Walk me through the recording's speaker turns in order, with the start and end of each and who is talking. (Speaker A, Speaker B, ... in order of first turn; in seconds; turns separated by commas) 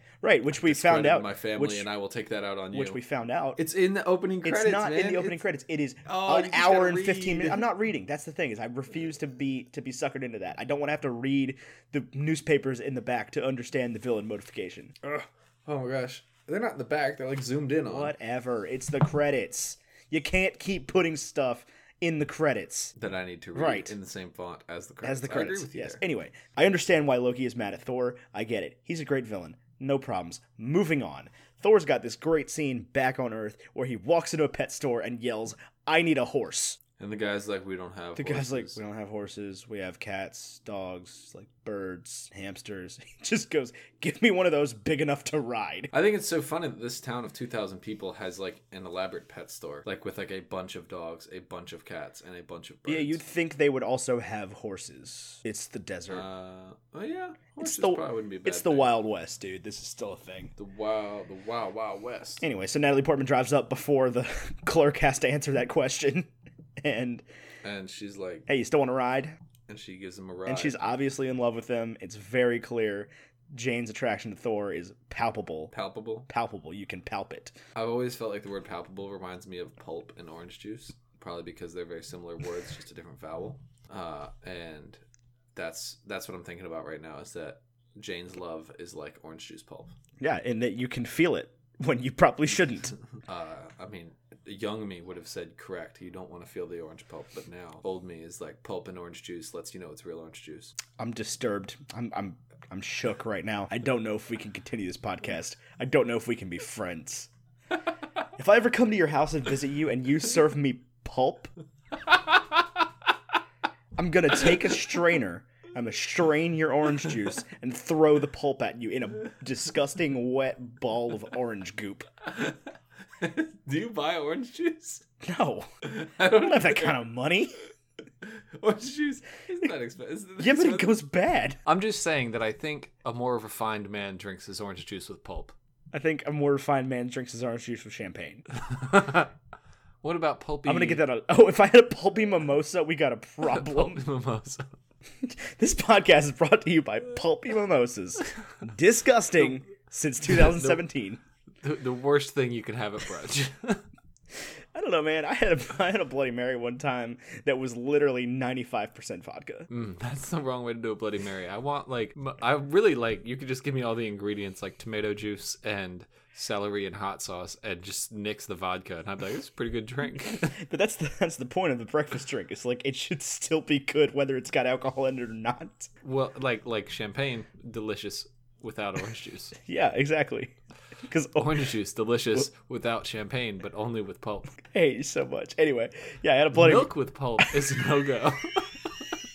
Speaker A: 0.2-1.9, Speaker B: 0.5-3.0, Speaker A: 2.7-3.6, Speaker B: 3.6-5.4, Speaker A: 4.4-14.9, Speaker B: 6.0-7.7, Speaker B: 15.0-18.1, Speaker A: 17.8-22.9, Speaker B: 23.0-26.0, Speaker A: 23.5-23.9, Speaker A: 25.0-36.8, Speaker B: 37.0-38.8, Speaker A: 38.1-45.9, Speaker B: 45.9-53.2, Speaker A: 52.9-56.2, Speaker B: 56.1-58.9, Speaker A: 57.6-60.5, Speaker B: 60.6-62.4, Speaker A: 62.4-67.2, Speaker B: 67.6-68.5, Speaker A: 68.5-69.3, Speaker B: 69.7-70.8, Speaker A: 70.5-75.7, Speaker B: 75.7-76.3, Speaker A: 76.3-77.5, Speaker B: 77.7-85.0, Speaker B: 85.5-89.9, Speaker A: 90.2-92.9, Speaker B: 93.2-100.7, Speaker A: 101.0-107.3, Speaker A: 108.3-111.5, Speaker A: 114.0-122.1, Speaker B: 122.2-122.6, Speaker B: 123.2-125.0, Speaker A: 125.2-125.7, Speaker B: 125.8-127.0, Speaker A: 126.2-127.6, Speaker B: 128.2-130.9, Speaker A: 130.4-131.6, Speaker B: 131.7-135.5, Speaker A: 135.9-138.4, Speaker B: 138.5-139.3, Speaker B: 140.0-141.1, Speaker A: 140.6-144.0, Speaker B: 143.4-144.7, Speaker A: 145.2-151.2, Speaker B: 150.2-150.8, Speaker B: 151.6-153.8, Speaker A: 154.7-159.7, Speaker B: 159.7-170.6, Speaker A: 170.5-175.9, Speaker B: 176.0-179.6, Speaker A: 179.6-181.6, Speaker B: 181.3-184.5, Speaker A: 184.6-186.9, Speaker B: 186.5-188.9